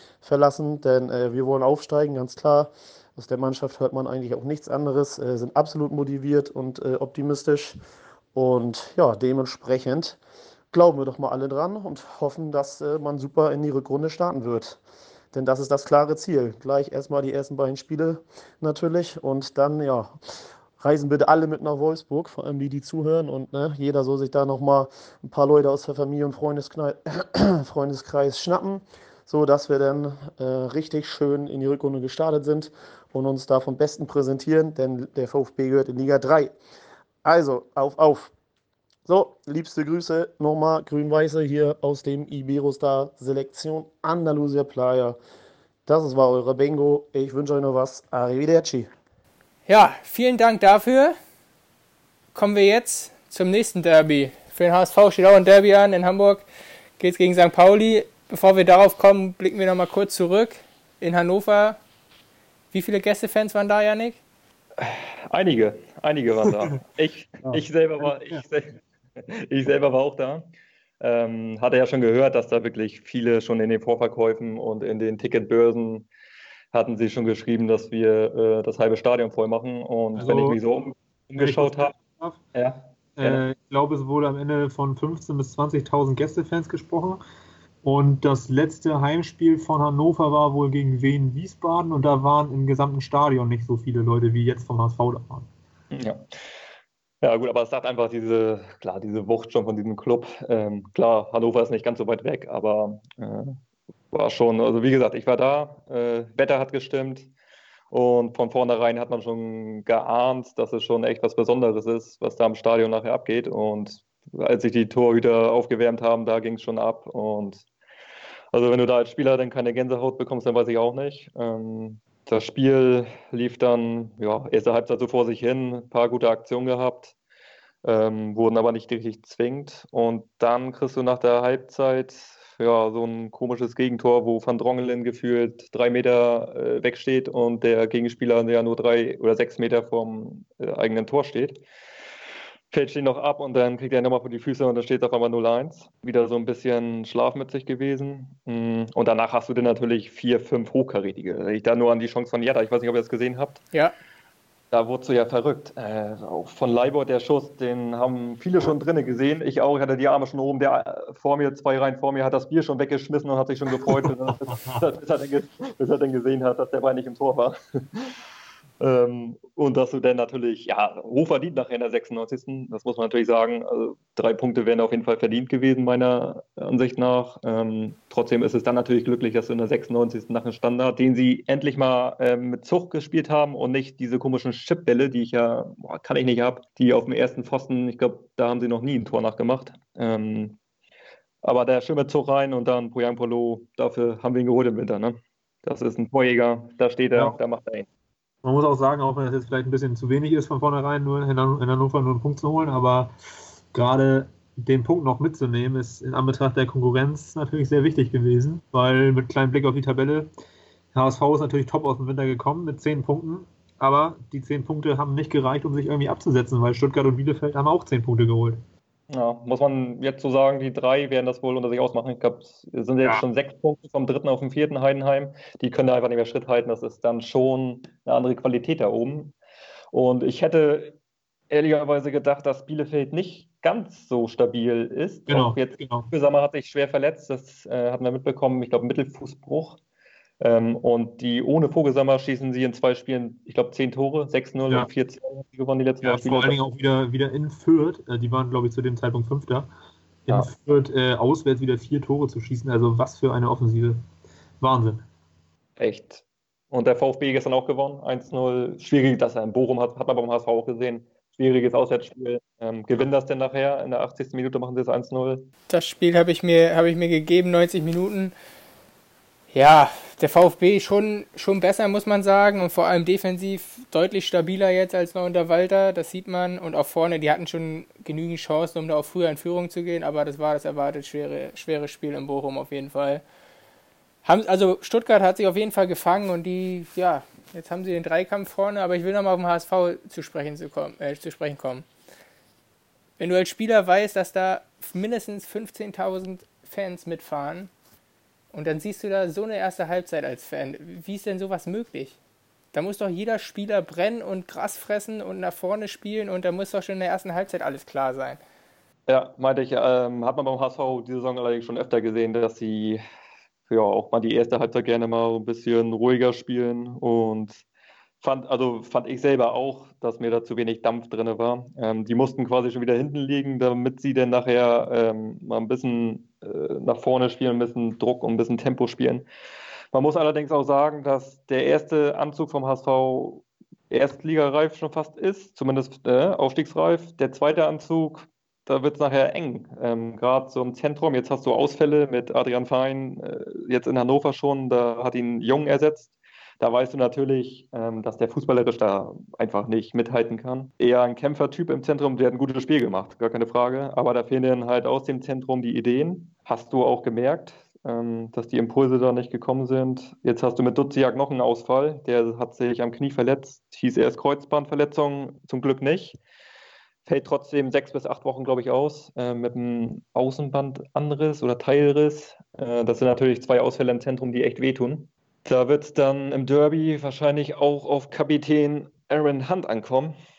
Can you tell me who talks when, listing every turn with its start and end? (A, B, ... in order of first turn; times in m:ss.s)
0:00.2-0:07.8 A
0:08.4-0:10.2 A
0:10.7-0:14.8 A
0:15.3-0:20.1 A
0:20.8-0:36.5 A
0:37.2-0:38.3 A
0:39.1-0:45.2 A
0:45.9-0:48.9 A
0:49.7-0:51.2 B
0:52.3-0:56.4 B
0:57.0-1:01.8 B
1:02.7-1:04.2 B
1:04.8-1:10.5 C
1:07.4-1:08.4 D
1:11.0-1:16.1 C
1:16.7-1:21.9 C
1:20.2-1:20.6 D
1:21.4-1:22.4 D
1:22.5-1:23.4 C
1:23.2-1:27.2 D
1:27.8-1:35.5 D
1:35.9-1:36.2 C
1:37.2-1:43.6 C
1:44.1-1:47.3 C
1:47.9-1:57.7 C
1:58.5-2:07.2 C
2:07.8-2:21.6 C
2:22.7-2:33.6 C
2:34.7-2:48.1 C
2:43.8-2:44.8 D
2:48.8-3:10.6 C
3:11.4-3:17.9 C
3:18.4-3:23.1 D
3:23.7-3:30.3 D
3:30.9-3:38.6 D
3:39.1-3:49.4 C
3:49.9-3:51.0 C
3:51.5-3:59.8 C
3:55.3-3:56.1 D
4:00.4-4:06.6 C
4:06.0-4:09.7 D
4:10.3-4:14.0 D
4:14.6-4:15.0 D
4:15.8-4:25.5 C
4:25.7-4:28.3 B
4:29.5-4:43.2 B
4:44.2-4:51.9 B
4:53.2-4:57.7 B
4:58.5-5:02.2 B
5:02.7-5:08.4 B
5:09.1-5:13.0 C
5:13.7-5:17.6 C
5:18.2-5:29.2 C
5:29.9-6:06.2 C
6:07.0-6:20.2 C